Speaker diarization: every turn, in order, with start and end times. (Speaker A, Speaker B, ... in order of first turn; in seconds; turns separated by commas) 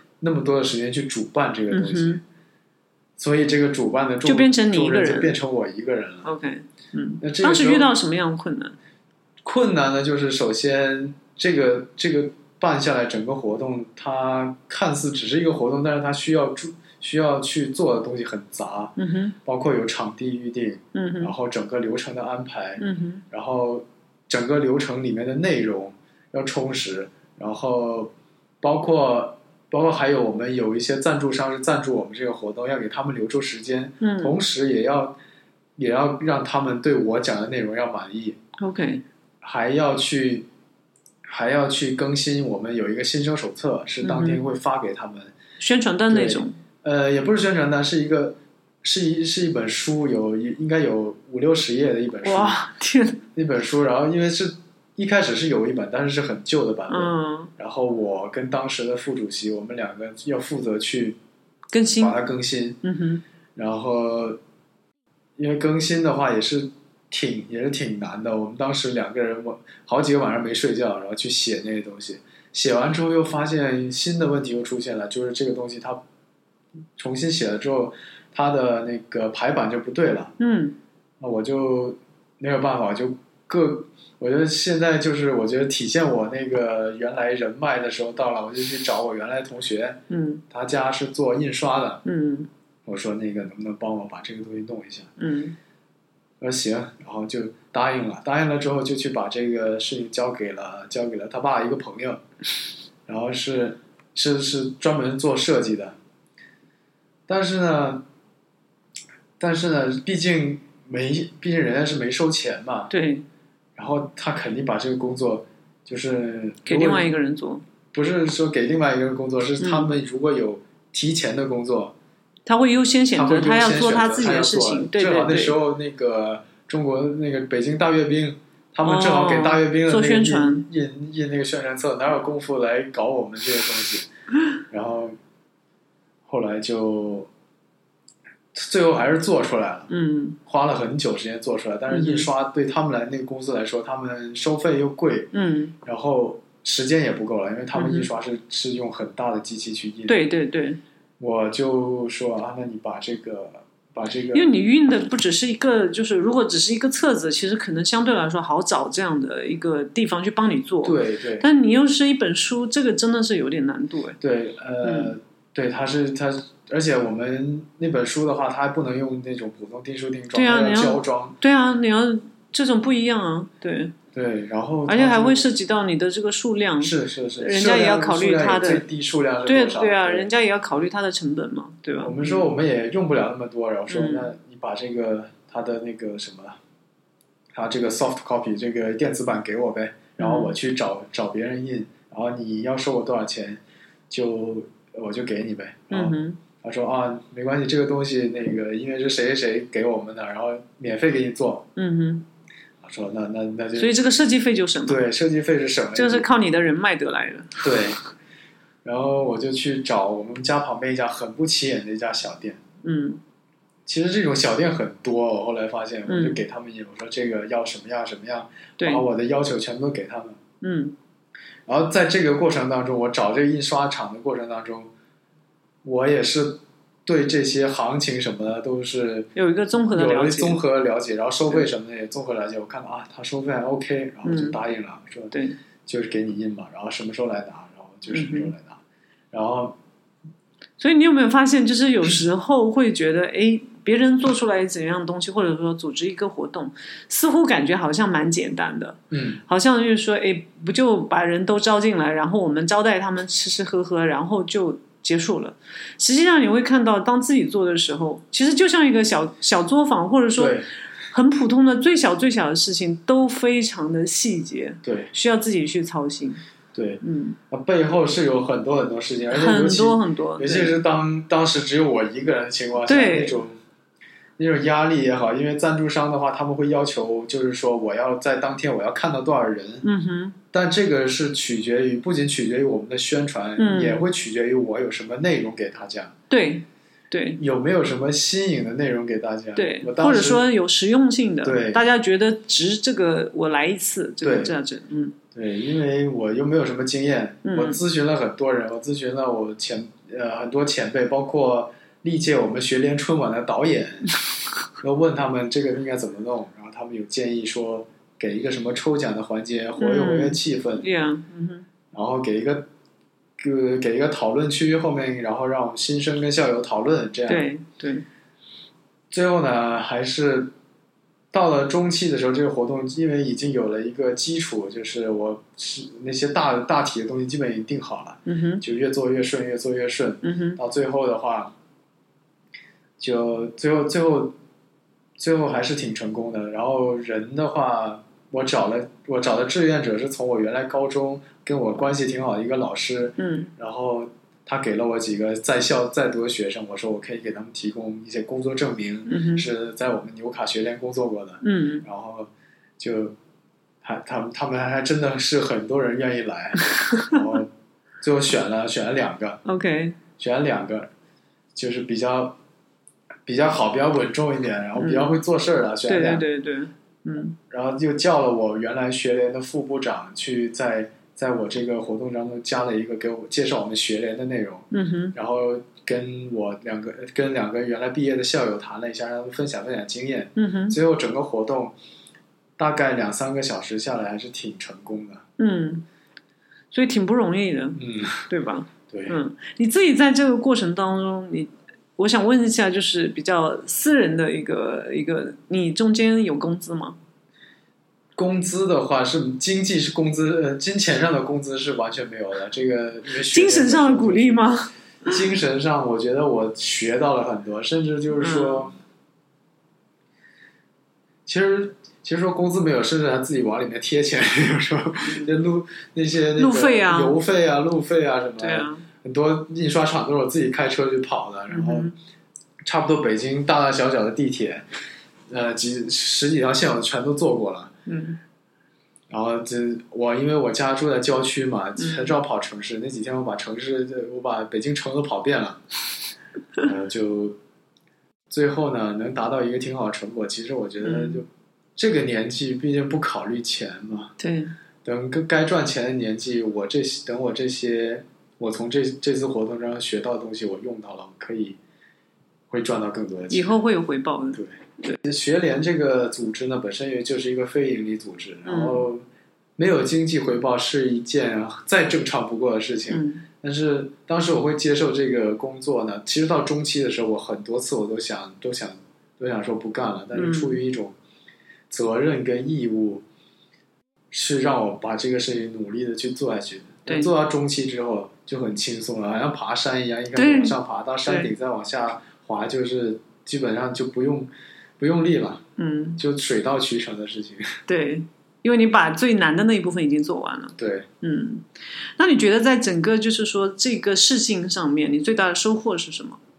Speaker A: 0.2-2.2, Speaker B: 1.7-2.2, Speaker A: 3.2-6.3, Speaker B: 4.2-5.4, Speaker B: 6.2-8.8, Speaker A: 7.2-7.9, Speaker A: 9.4-35.2, Speaker B: 19.0-19.4, Speaker B: 20.9-21.3, Speaker B: 22.8-23.2, Speaker B: 34.0-34.4, Speaker A: 35.8-38.4, Speaker B: 38.6-39.0, Speaker A: 39.4-40.5, Speaker A: 41.3-45.3, Speaker B: 44.0-44.4, Speaker B: 45.6-46.6, Speaker A: 46.1-52.7, Speaker B: 52.2-53.2, Speaker A: 53.4-61.2, Speaker B: 56.9-57.5, Speaker B: 61.7-62.2, Speaker A: 62.0-62.8, Speaker B: 62.8-63.2, Speaker A: 63.5-64.4, Speaker A: 65.4-76.0, Speaker A: 77.0-80.3, Speaker B: 80.4-80.8, Speaker A: 81.2-92.0, Speaker B: 90.1-90.4, Speaker B: 92.0-92.5, Speaker A: 92.9-95.1, Speaker B: 95.2-95.6, Speaker A: 96.4-102.2, Speaker A: 103.1-106.0, Speaker A: 107.3-108.0, Speaker A: 109.4-112.9, Speaker B: 112.9-113.3, Speaker A: 113.8-117.1, Speaker B: 116.7-117.6, Speaker A: 117.9-122.0, Speaker B: 119.6-119.9, Speaker B: 122.5-125.6, Speaker A: 123.1-134.1, Speaker B: 128.8-130.7, Speaker A: 134.7-135.2, Speaker A: 136.3-137.3, Speaker A: 138.5-139.9, Speaker B: 139.9-140.4, Speaker A: 140.4-145.3, Speaker B: 141.9-142.3, Speaker B: 145.3-145.8, Speaker A: 145.8-150.2, Speaker B: 147.7-148.1, Speaker B: 150.1-150.8, Speaker A: 151.2-154.5, Speaker B: 154.3-164.2, Speaker A: 160.8-161.5, Speaker A: 164.2-171.4, Speaker B: 164.8-165.1, Speaker B: 170.3-174.0, Speaker A: 174.1-175.5, Speaker B: 174.9-178.9, Speaker A: 176.8-180.3, Speaker B: 179.4-182.5, Speaker A: 182.0-186.6, Speaker B: 183.9-184.3, Speaker A: 187.5-201.7, Speaker B: 190.2-190.6, Speaker B: 195.9-196.4, Speaker B: 201.8-202.2, Speaker A: 202.8-203.9, Speaker B: 203.8-205.0, Speaker A: 204.9-206.3, Speaker B: 205.9-207.6, Speaker A: 207.6-208.0, Speaker A: 208.8-212.6, Speaker B: 212.8-213.2, Speaker A: 213.9-220.4, Speaker B: 216.1-216.4, Speaker B: 218.8-219.1, Speaker B: 220.6-220.9, Speaker A: 221.7-224.9, Speaker A: 225.8-229.3, Speaker B: 229.4-230.6, Speaker A: 229.9-238.8, Speaker B: 234.2-234.6, Speaker B: 235.3-235.6, Speaker B: 238.1-238.5, Speaker A: 239.3-239.8, Speaker B: 240.8-260.6, Speaker A: 249.1-249.4, Speaker A: 260.4-260.7, Speaker B: 261.1-266.4, Speaker A: 264.8-265.1, Speaker A: 266.7-273.6, Speaker B: 267.0-267.4, Speaker B: 269.3-270.8, Speaker B: 272.9-273.4, Speaker A: 274.4-279.9, Speaker B: 279.8-280.4, Speaker A: 280.5-286.1, Speaker B: 283.6-284.1, Speaker B: 286.3-287.4, Speaker A: 287.4-290.5, Speaker B: 289.6-295.2, Speaker A: 291.4-291.9, Speaker A: 294.2-294.6, Speaker A: 295.3-304.1, Speaker B: 297.4-297.8, Speaker A: 304.8-310.9, Speaker B: 309.8-311.7, Speaker A: 311.9-312.7, Speaker A: 313.4-317.5, Speaker B: 317.3-318.1, Speaker A: 319.1-320.5, Speaker A: 321.3-331.5, Speaker B: 328.3-328.6, Speaker B: 330.2-330.6, Speaker A: 333.0-334.4, Speaker A: 335.2-353.2, Speaker B: 343.2-343.5, Speaker B: 349.1-349.5, Speaker B: 351.4-351.9, Speaker A: 353.8-357.5, Speaker A: 358.0-359.4, Speaker B: 359.4-360.0, Speaker A: 360.2-360.9, Speaker A: 361.6-362.4, Speaker A: 363.3-366.3, Speaker B: 364.8-365.2, Speaker B: 365.9-367.4, Speaker A: 367.5-381.8, Speaker B: 374.7-375.1, Speaker B: 380.4-380.8, Speaker A: 382.6-385.2, Speaker B: 385.4-385.9, Speaker B: 386.7-397.0, Speaker A: 387.8-388.3, Speaker A: 388.9-389.2, Speaker A: 398.2-404.5, Speaker B: 403.2-405.1, Speaker A: 405.1-408.8, Speaker B: 408.2-408.7, Speaker A: 411.3-421.9, Speaker B: 415.1-415.3, Speaker B: 416.4-417.2, Speaker B: 418.4-418.9, Speaker B: 421.5-421.9, Speaker A: 422.7-424.6, Speaker A: 425.3-427.8, Speaker B: 427.9-428.2, Speaker A: 429.1-435.6, Speaker B: 431.8-432.1, Speaker A: 436.6-437.4, Speaker A: 438.3-444.1, Speaker B: 440.8-441.2, Speaker B: 444.2-444.5, Speaker A: 444.9-451.6, Speaker A: 452.5-453.6, Speaker B: 453.3-455.0, Speaker A: 455.0-459.1, Speaker B: 458.4-458.9, Speaker A: 459.6-470.9, Speaker B: 462.9-463.2, Speaker B: 470.1-470.6, Speaker A: 471.7-473.0, Speaker A: 474.1-485.4, Speaker B: 476.9-477.1, Speaker B: 480.1-481.3, Speaker B: 485.6-486.0, Speaker A: 486.0-487.5, Speaker B: 487.7-491.5, Speaker A: 490.6-490.9, Speaker B: 492.0-496.2